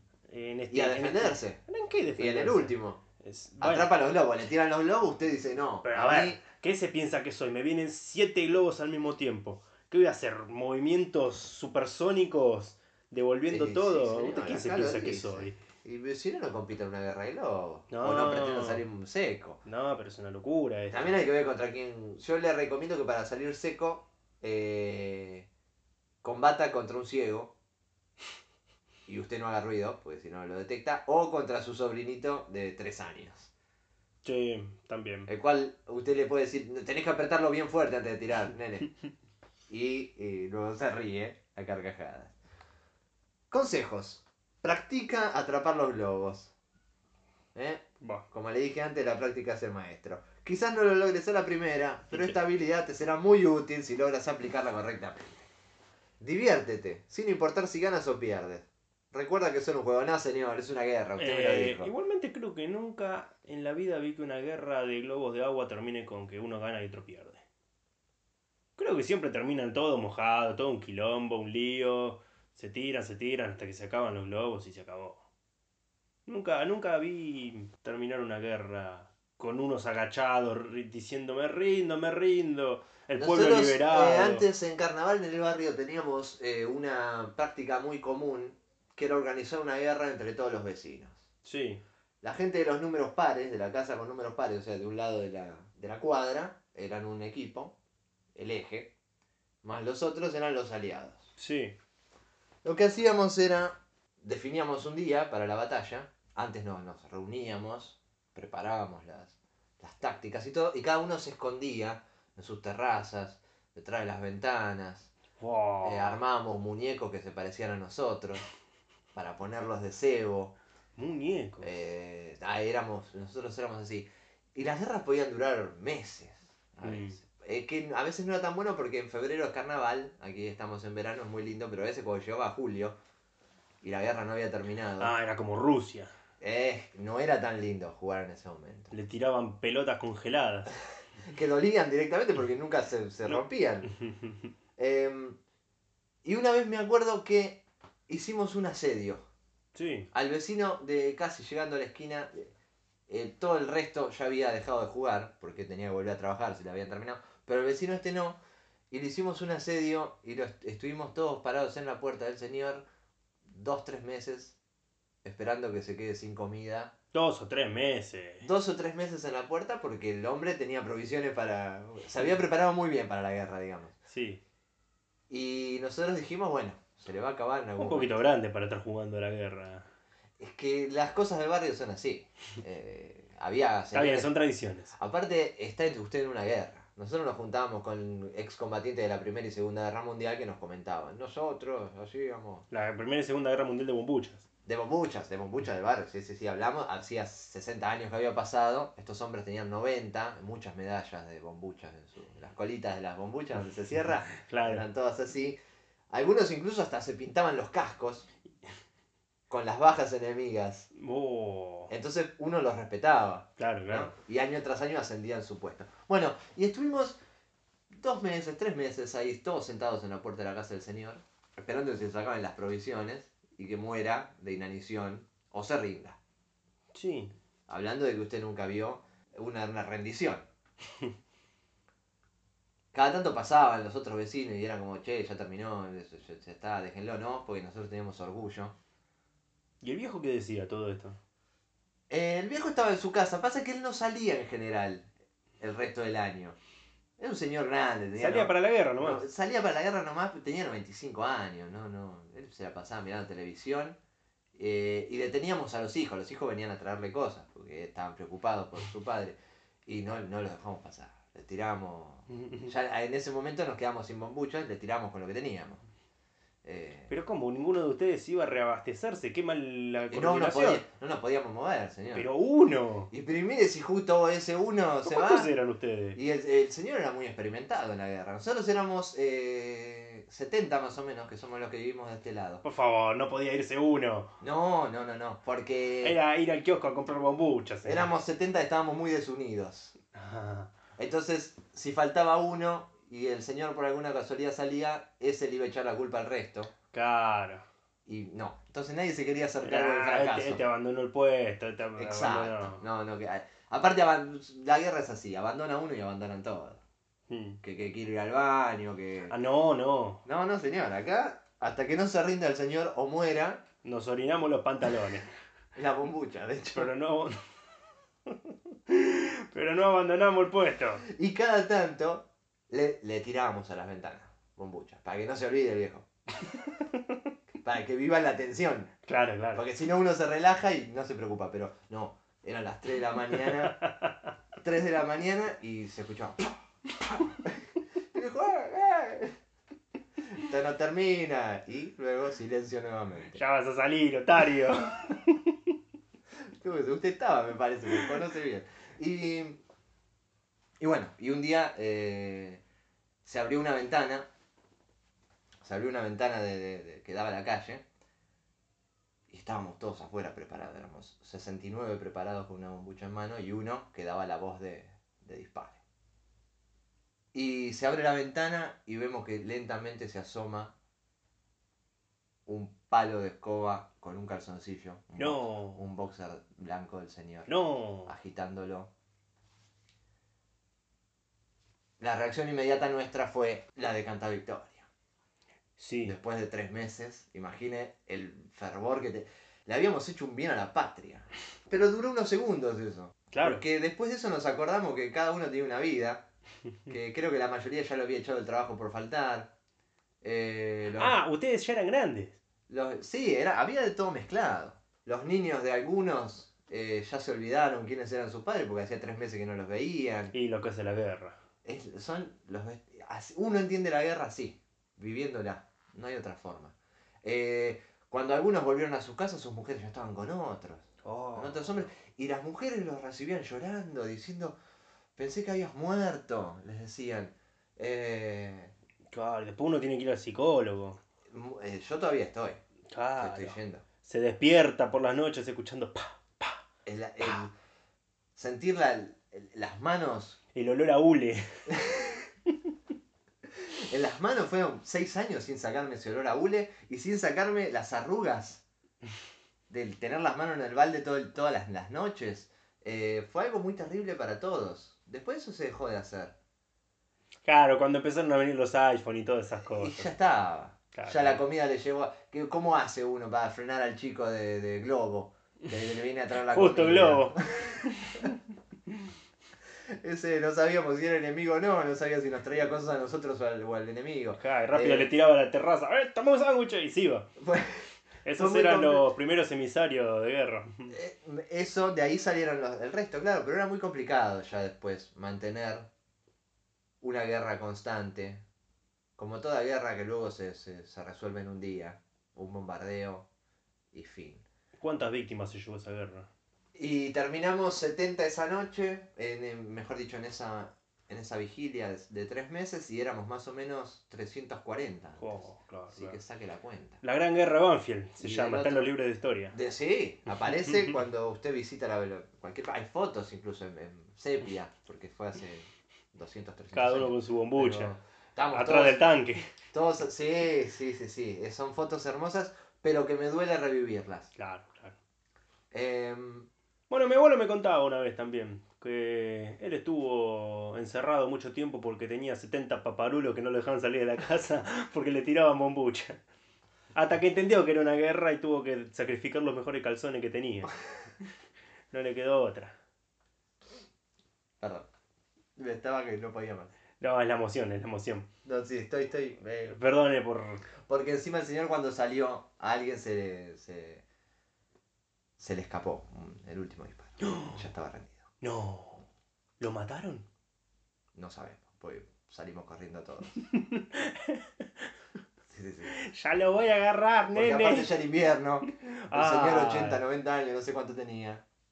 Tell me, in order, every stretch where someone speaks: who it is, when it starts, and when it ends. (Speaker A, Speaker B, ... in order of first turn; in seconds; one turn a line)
Speaker A: 0.3-3.9
Speaker B: 0.7-1.6
Speaker B: 2.2-3.0
Speaker B: 3.6-6.4
Speaker A: 5.8-15.6
Speaker B: 13.5-19.6
Speaker A: 17.9-18.8
Speaker A: 19.6-21.2
Speaker B: 20.9-25.5
Speaker B: 26.2-27.6
Speaker B: 29.1-33.5
Speaker A: 34.2-35.3
Speaker B: 35.3-38.9
Speaker B: 39.7-42.4
Speaker B: 43.5-46.5
Speaker B: 47.5-55.5
Speaker A: 48.0-48.3
Speaker A: 52.1-52.4
Speaker B: 56.2-61.9
Speaker A: 61.2-67.4
Speaker A: 68.8-75.2
Speaker A: 76.3-84.5
Speaker B: 83.2-91.2
Speaker A: 91.4-91.8
Speaker B: 92.2-97.8
Speaker B: 98.3-98.9
Speaker B: 99.6-101.3
Speaker A: 101.4-101.8
Speaker B: 102.6-115.1
Speaker A: 115.4-116.2
Speaker B: 115.8-118.5
Speaker B: 119.2-120.5
Speaker A: 121.0-121.7
Speaker B: 121.6-133.0
Speaker A: 126.8-127.2
Speaker B: 133.8-135.1
Speaker A: 135.0-136.1
Speaker B: 136.4-138.9
Speaker A: 138.9-140.7
Speaker B: 141.3-143.9
Speaker A: 143.3-144.3
Speaker B: 144.8-145.4
Speaker B: 146.2-149.3
Speaker A: 149.8-150.1
Speaker B: 150.1-152.5
Speaker B: 153.1-158.4
Speaker B: 158.9-162.8
Speaker B: 163.5-164.6
Speaker B: 165.2-166.9
Speaker A: 167.1-168.5
Speaker B: 168.4-173.9
Speaker A: 174.1-174.4
Speaker B: 175.3-178.2
Speaker A: 177.8-179.9
Speaker B: 180.4-184.3
Speaker A: 183.9-184.9
Speaker B: 184.9-192.7
Speaker A: 192.7-194.4
Speaker B: 194.7-205.6
Speaker A: 204.4-204.8
Speaker B: 206.1-208.3
Speaker B: 209.5-210.9
Speaker A: 210.9-211.9
Speaker B: 211.9-217.2
Speaker A: 213.6-214.1
Speaker B: 217.9-226.2
Speaker A: 226.9-227.3
Speaker B: 227.7-230.5
Speaker B: 232.9-238.8
Speaker A: 239.8-241.2
Speaker B: 242.1-245.1
Speaker B: 245.6-246.6
Speaker B: 247.2-254.0
Speaker A: 248.2-249.2
Speaker B: 254.6-265.8
Speaker A: 262.3-262.7
Speaker B: 266.6-267.1
Speaker A: 267.1-270.8
Speaker B: 270.1-272.3
Speaker A: 272.1-273.1
Speaker B: 273.1-275.5
Speaker A: 275.1-276.2
Speaker B: 276.1-282.6
Speaker A: 282.6-284.3
Speaker B: 284.4-286.2
Speaker A: 286.0-288.1
Speaker B: 287.9-289.9
Speaker A: 290.1-290.7
Speaker B: 291.0-296.7
Speaker A: 296.9-297.6
Speaker B: 298.1-300.6
Speaker A: 299.6-302.8
Speaker B: 302.0-306.8
Speaker A: 307.3-307.6
Speaker B: 307.6-309.3
Speaker A: 309.3-310.2
Speaker B: 310.3-313.6
Speaker A: 313.8-315.3
Speaker B: 315.8-316.9
Speaker A: 316.8-317.4
Speaker A: 318.3-321.1
Speaker B: 321.1-326.1
Speaker A: 326.4-327.3
Speaker B: 327.6-328.9
Speaker A: 329.1-329.6
Speaker B: 329.6-333.8
Speaker A: 333.6-334.2
Speaker B: 334.6-339.4
Speaker B: 340.3-343.4
Speaker A: 343.3-345.7
Speaker B: 346.6-349.6
Speaker B: 350.8-352.6
Speaker B: 353.2-354.3
Speaker B: 355.6-357.8
Speaker B: 359.3-365.8
Speaker B: 367.3-370.7
Speaker B: 372.5-377.6
Speaker A: 375.2-375.8
Speaker A: 377.5-378.1
Speaker B: 378.1-378.9
Speaker B: 382.0-384.9
Speaker A: 385.8-386.2
Speaker B: 386.0-396.2
Speaker A: 393.3-393.6
Speaker B: 396.9-399.5
Speaker B: 400.2-401.2
Speaker A: 400.9-402.4
Speaker B: 402.7-410.3
Speaker A: 410.3-411.4
Speaker B: 411.6-424.6
Speaker A: 421.0-421.9
Speaker B: 425.2-428.7
Speaker A: 429.1-431.0
Speaker B: 431.3-432.6
Speaker A: 432.9-436.6
Speaker B: 433.2-433.8
Speaker B: 436.9-437.5
Speaker B: 438.4-440.4
Speaker A: 440.5-441.8
Speaker B: 441.7-442.2
Speaker B: 443.6-448.6
Speaker B: 449.7-456.3
Speaker A: 457.4-460.1
Speaker B: 459.7-468.3
Speaker A: 460.9-461.4
Speaker A: 466.5-468.4
Speaker B: 469.9-475.1
Speaker A: 474.4-477.3
Speaker B: 477.4-479.1
Speaker A: 478.2-481.0
Speaker B: 480.9-485.9
Speaker B: 487.0-488.4
Speaker B: 489.2-493.3
Speaker B: 493.9-494.4
Speaker A: 494.8-496.3
Speaker B: 496.8-507.0
Speaker A: 505.2-506.2
Speaker A: 507.0-509.6
Speaker B: 508.2-508.9
Speaker B: 509.5-519.0
Speaker A: 510.4-510.9
Speaker A: 516.7-517.9
Speaker A: 518.5-519.5
Speaker B: 519.7-524.3
Speaker A: 524.4-525.0
Speaker B: 525.7-526.5
Speaker A: 526.9-536.2
Speaker A: 536.9-540.8
Speaker A: 541.9-542.8
Speaker B: 544.6-544.9
Speaker B: 545.6-546.7
Speaker A: 547.0-548.3
Speaker B: 548.5-549.8
Speaker A: 549.7-550.7
Speaker B: 550.8-554.0
Speaker B: 555.4-558.3
Speaker A: 557.2-557.6
Speaker A: 558.4-559.1
Speaker A: 559.6-560.3
Speaker B: 561.1-563.4
Speaker A: 563.4-564.8
Speaker B: 565.5-566.0
Speaker A: 565.9-567.9
Speaker B: 567.3-571.4
Speaker A: 568.6-570.0